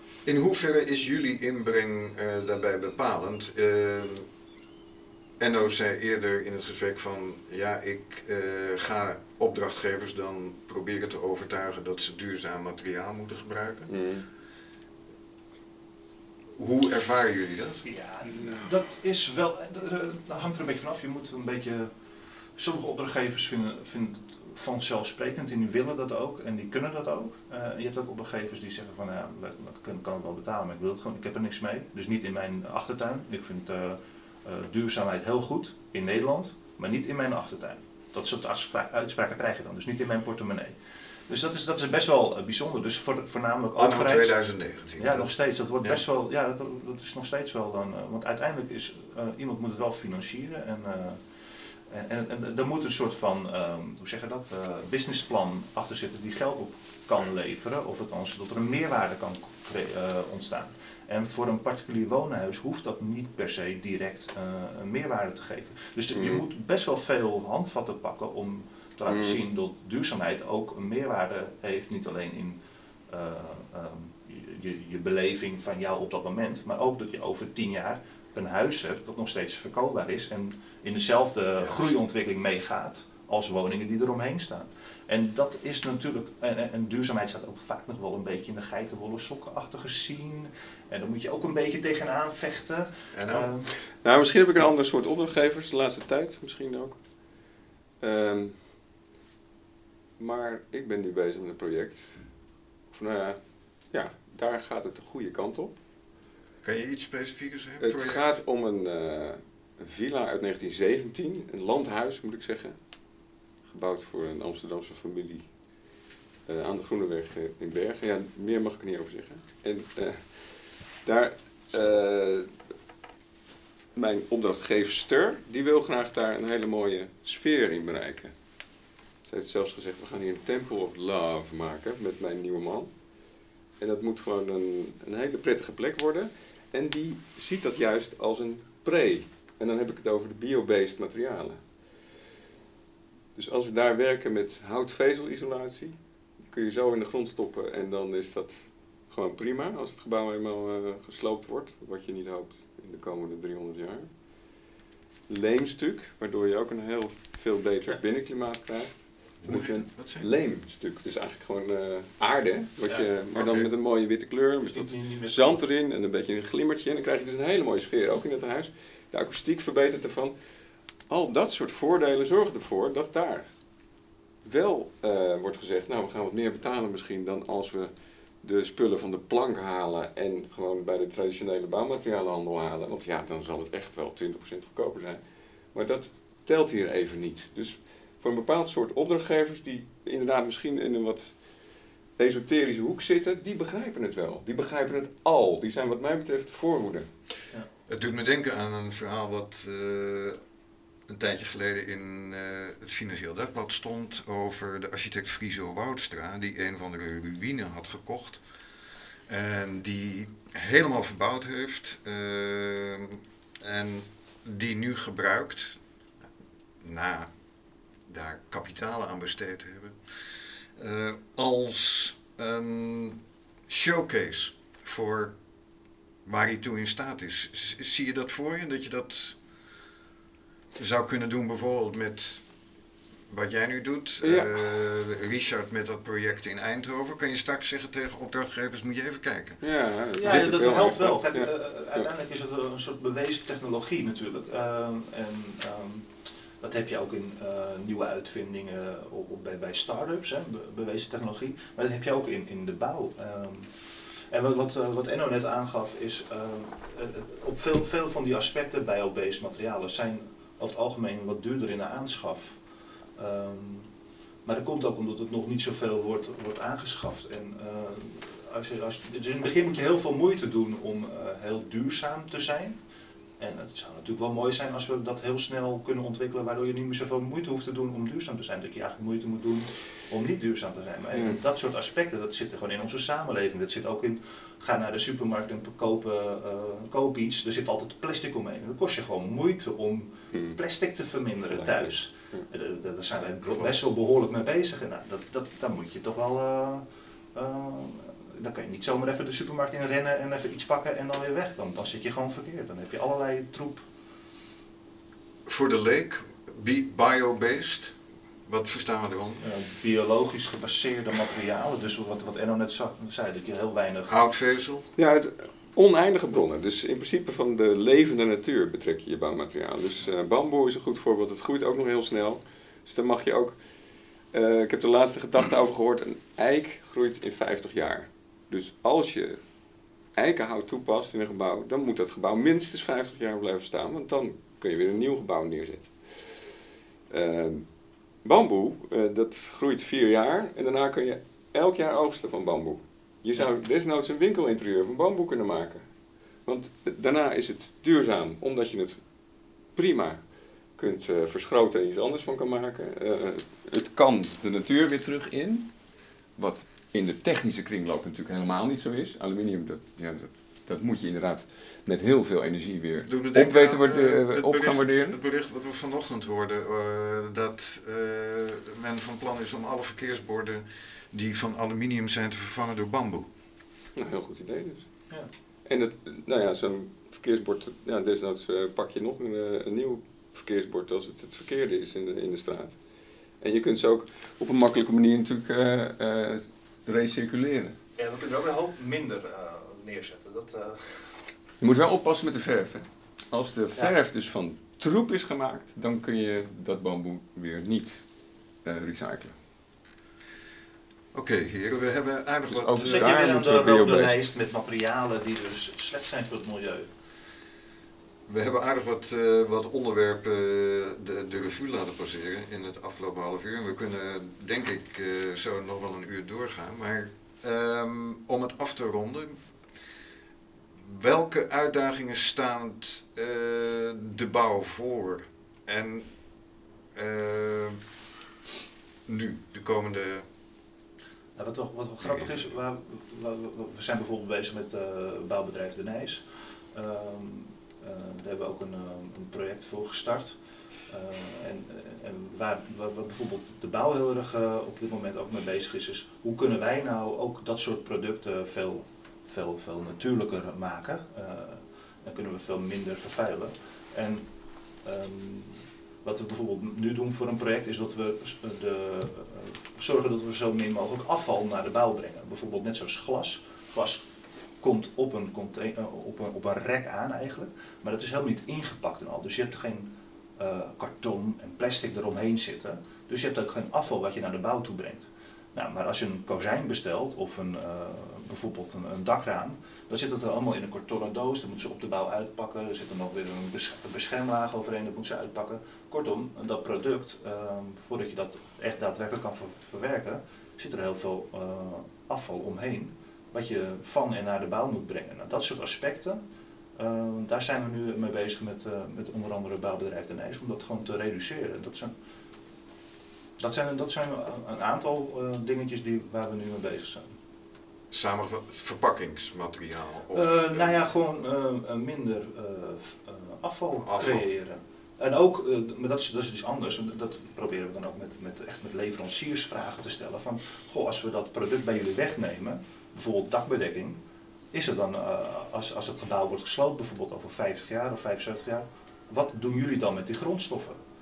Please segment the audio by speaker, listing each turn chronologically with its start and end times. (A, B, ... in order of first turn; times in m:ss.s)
0:00.2-0:04.3 A
0:05.4-0:13.9 A
0:13.9-0:14.3 B
0:16.6-0:17.8 A
0:17.8-0:21.9 C
0:22.6-0:40.7 C
0:41.3-0:44.4 C
0:43.8-0:45.3 A
0:45.0-0:51.2 C
0:51.9-1:33.7 C
1:06.1-1:06.4 B
1:09.1-1:09.4 B
1:33.1-1:33.5 A
1:33.8-1:37.0 B
1:38.0-1:38.7 B
1:40.2-1:42.3 B
1:42.9-1:43.4 B
1:43.9-1:45.7 B
1:46.6-1:48.2 A
1:47.8-1:52.8 B
1:53.6-1:55.5 B
1:56.5-2:02.5 B
2:03.9-2:08.3 B
2:09.2-2:12.9 B
2:13.8-2:21.6 B
2:23.4-2:34.1 B
2:35.3-2:50.3 B
2:39.4-2:40.3 A
2:43.3-2:43.7 A
2:44.7-2:45.6 C
2:51.1-2:53.5 B
2:54.4-3:05.2 B
3:05.7-3:11.4 B
3:12.2-3:17.1 B
3:17.9-3:20.4 A
3:21.1-3:28.4 A
3:29.3-3:35.8 A
3:36.8-3:37.3 A
3:38.1-3:40.0 A
3:40.8-3:45.4 A
3:46.2-3:49.4 A
3:50.8-3:52.4 A
3:53.3-3:59.6 A
3:54.2-3:54.6 B
3:59.6-4:02.1 B
4:00.2-4:06.1 C
4:06.6-4:13.7 C
4:14.3-4:22.6 C
4:23.2-4:23.9 C
4:24.4-4:32.8 C
4:33.4-5:03.8 C
4:50.3-4:50.6 B
4:51.5-4:52.4 B
5:05.4-5:09.4 A
5:09.4-5:14.2 C
5:14.1-5:14.9 A
5:15.0-5:23.6 B
5:24.3-5:29.4 B
5:30.1-5:45.8 B
5:46.4-5:49.0 B
5:49.7-5:50.2 B
5:50.8-5:55.7 B
5:56.4-6:05.2 B
6:03.0-6:13.3 A
6:14.0-6:14.9 B
6:15.6-6:22.8 B
6:23.4-6:27.8 B
6:28.0-6:31.2 C
6:31.6-6:38.0 B
6:38.6-6:39.3 B
6:41.1-6:43.1 A
6:42.5-6:44.2 B
6:42.8-6:46.9 C
6:48.3-6:59.4 A
7:00.8-7:06.1 A
7:06.9-7:07.8 A
7:09.0-7:10.2 A
7:11.4-7:20.4 C
7:12.0-7:12.3 A
7:20.9-7:34.3 C
7:34.8-7:44.0 C
7:44.6-8:16.2 C
8:16.8-8:21.9 C
8:23.4-8:27.2 C
8:27.9-8:30.8 A
8:30.1-8:44.0 C
8:33.8-8:34.2 A
8:44.5-8:50.8 C